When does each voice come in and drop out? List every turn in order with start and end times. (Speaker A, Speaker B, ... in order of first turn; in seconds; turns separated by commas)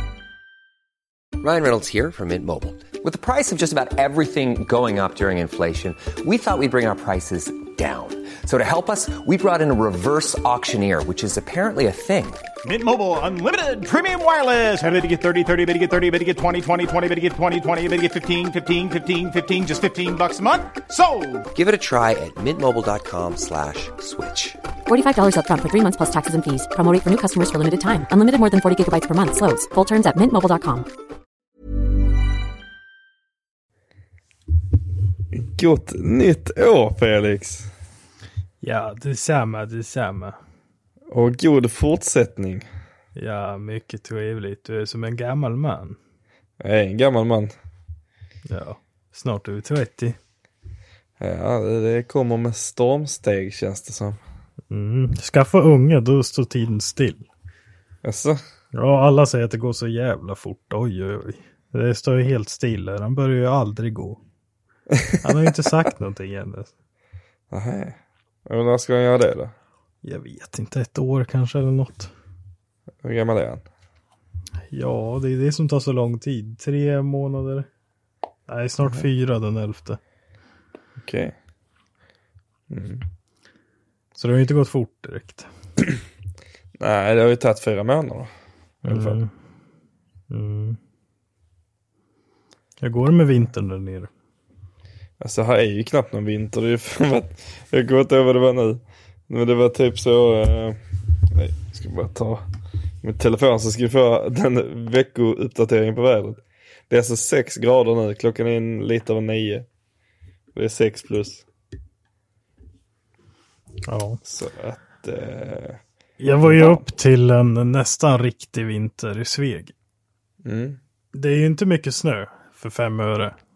Speaker A: 1.4-12.4, Speaker B: 12.6-21.5, Speaker A: 21.5-24.6, Speaker C: 24.9-30.9, Speaker D: 35.3-37.7, Speaker E: 38.6-40.4, Speaker D: 41.1-42.7, Speaker E: 43.2-46.0, Speaker D: 46.6-47.5, Speaker E: 48.5-50.2, Speaker D: 51.2-54.2, Speaker E: 54.7-57.3, Speaker D: 58.0-58.4, Speaker E: 58.7-64.2, Speaker D: 64.9-65.5, Speaker E: 65.2-66.7, Speaker D: 67.5-69.5, Speaker E: 70.0-72.1, Speaker D: 73.0-73.7, Speaker E: 74.7-77.7, Speaker E: 78.5-80.0, Speaker D: 81.0-81.3, Speaker D: 82.7-83.0, Speaker E: 84.2-85.5, Speaker D: 86.8-88.3, Speaker D: 88.8-89.2, Speaker E: 88.9-89.3, Speaker E: 90.3-90.8, Speaker E: 92.8-94.1, Speaker D: 95.2-100.8, Speaker D: 101.3-102.5, Speaker D: 103.0-109.7, Speaker D: 110.5-111.4, Speaker E: 113.9-114.2, Speaker D: 114.2-115.8, Speaker E: 116.2-119.7, Speaker D: 116.4-116.8, Speaker D: 120.4-120.8, Speaker E: 121.1-123.3